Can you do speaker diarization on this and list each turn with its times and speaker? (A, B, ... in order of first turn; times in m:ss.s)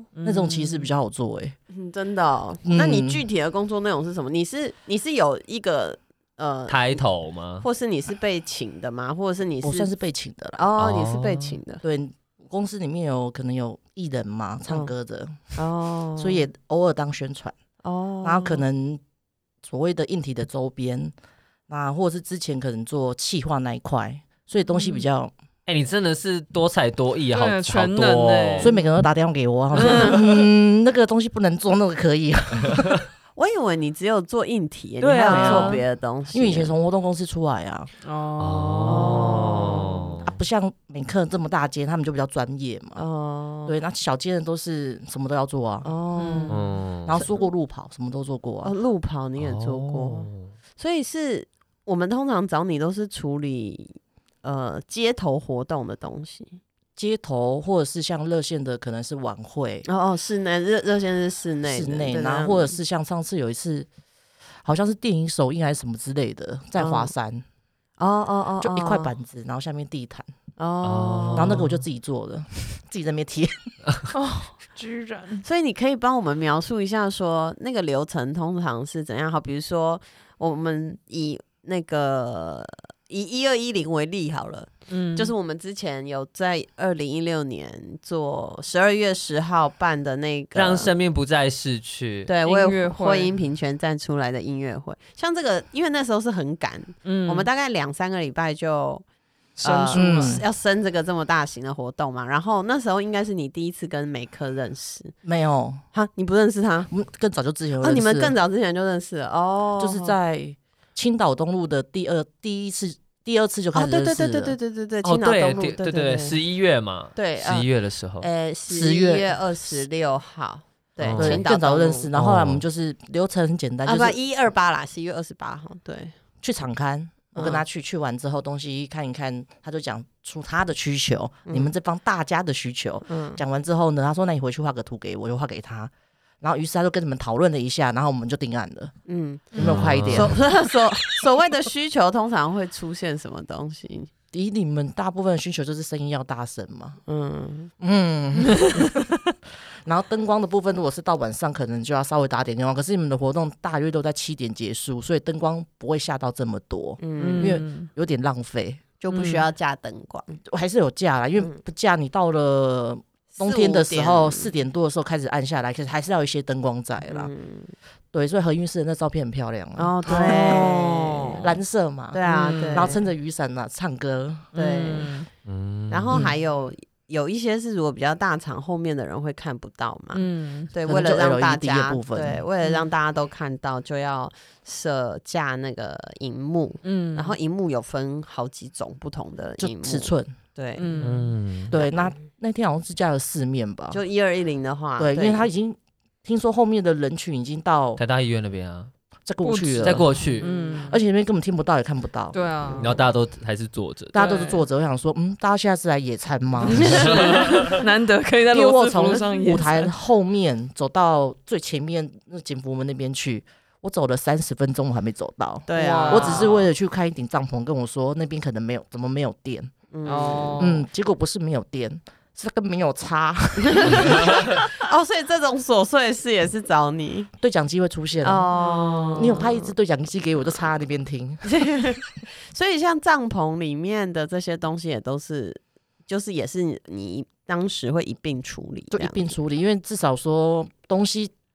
0:00.2-0:00.9 A
0:00.2-0:01.6 B
0:01.7-0:07.0 C
0:02.6-0:03.2 B
0:06.7-0:07.6 D
0:07.6-0:09.9 C
0:09.6-0:10.6 B
0:10.6-0:11.8 C
0:10.8-0:11.6 D
0:11.8-0:15.6 B
0:15.6-0:16.5 C
0:16.2-0:17.6 B
0:17.8-0:18.6 C
0:18.2-0:19.0 B
0:19.6-0:21.1 B
0:21.7-0:25.3 B
0:25.7-0:28.7 D
0:27.3-0:28.9 A
0:28.6-0:33.0 B
0:29.8-0:30.2 A
0:29.8-0:30.1 C
0:33.4-0:36.7 C
0:35.0-0:35.8 D
0:35.3-0:37.9 B
0:38.0-0:39.5 A
0:38.4-0:40.3 D
0:38.8-0:39.9 C
0:40.3-0:43.0 B
0:43.0-0:43.8 C
0:43.7-0:45.9 B
0:45.8-0:47.5 C
0:46.2-0:46.6 A
0:46.5-0:47.2 D
0:47.1-0:48.7 B
0:48.6-0:56.6 C
0:49.4-0:50.5 D
0:57.0-0:59.9 B
0:59.9-1:02.8 C
1:01.7-1:03.9 B
1:04.6-1:07.4 B
1:06.8-1:07.1 C
1:08.0-1:09.1 C
1:08.6-1:10.3 B
1:10.6-1:11.6 C
1:10.8-1:11.8 D
1:11.4-1:13.6 B
1:14.1-1:15.4 A
1:15.4-1:30.9 C
1:24.9-1:25.3 A
1:30.5-1:32.3 D
1:32.3-1:39.0 C
1:32.4-1:33.4 A
1:37.0-1:37.5 A
1:39.6-1:40.4 A
1:39.6-1:45.2 C
1:39.9-1:40.4 B
1:45.2-1:45.8 B
1:45.9-1:46.9 C
1:46.9-1:48.4 B
1:47.8-1:50.1 C
1:49.8-1:54.6 B
1:53.7-1:56.4 C
1:55.0-1:58.3 D
1:57.2-1:57.7 C
1:58.2-2:02.1 C
1:58.7-1:59.3 B
2:01.0-2:01.5 D
2:01.2-2:04.2 B
2:02.1-2:02.6 D
2:03.8-2:06.2 C
2:06.4-2:18.9 B
2:07.4-2:07.6 C
2:13.1-2:13.4 C
2:19.1-2:24.1 C
2:19.5-2:19.9 A
2:19.5-2:20.5 B
2:19.6-2:20.4 D
2:24.3-2:27.0 B
2:27.1-2:27.7 C
2:27.8-2:29.1 B
2:29.8-2:38.8 B
2:37.0-2:37.6 C
2:37.2-2:37.9 A
2:39.0-2:40.4 C
2:39.1-2:39.5 A
2:40.5-2:47.3 B
2:43.3-2:44.5 C
2:47.1-2:47.7 C
2:48.1-2:50.8 B
2:49.8-2:51.4 C
2:50.1-2:51.6 A
2:51.4-2:52.2 B
2:52.1-2:53.0 C
2:52.2-2:53.0 A
2:52.7-2:54.5 B
2:54.5-2:55.3 A
2:54.6-2:55.1 C
2:55.5-2:56.2 D
2:55.9-3:10.9 C
3:00.1-3:00.7 A
3:00.9-3:02.4 B
3:02.6-3:02.9 A
3:06.8-3:07.4 A
3:09.6-3:10.3 B
3:10.8-3:11.4 A
3:11.0-3:11.7 D
3:11.7-3:14.0 B
3:11.8-3:12.1 C
3:13.9-3:15.5 C
3:15.0-3:18.0 B
3:18.0-3:18.9 D
3:19.3-3:20.1 B
3:19.4-3:21.0 A
3:19.8-3:20.5 D
3:20.4-3:20.8 C
3:20.8-3:22.8 B
3:22.3-3:23.0 A
3:22.7-3:24.2 D
3:24.1-3:27.7 B
3:24.2-3:24.6 A
3:26.7-3:29.9 A
3:26.9-3:27.8 D
3:28.5-3:39.7 B
3:35.7-3:36.5 C
3:35.7-3:36.7 A
3:39.9-3:40.8 C
3:40.0-3:40.8 A
3:40.6-3:44.4 B
3:43.6-3:47.3 C
3:47.4-3:48.5 B
3:48.2-3:49.7 C
3:48.6-3:49.3 A
3:49.2-3:51.4 B
3:51.5-3:59.3 C
3:58.9-4:01.3 B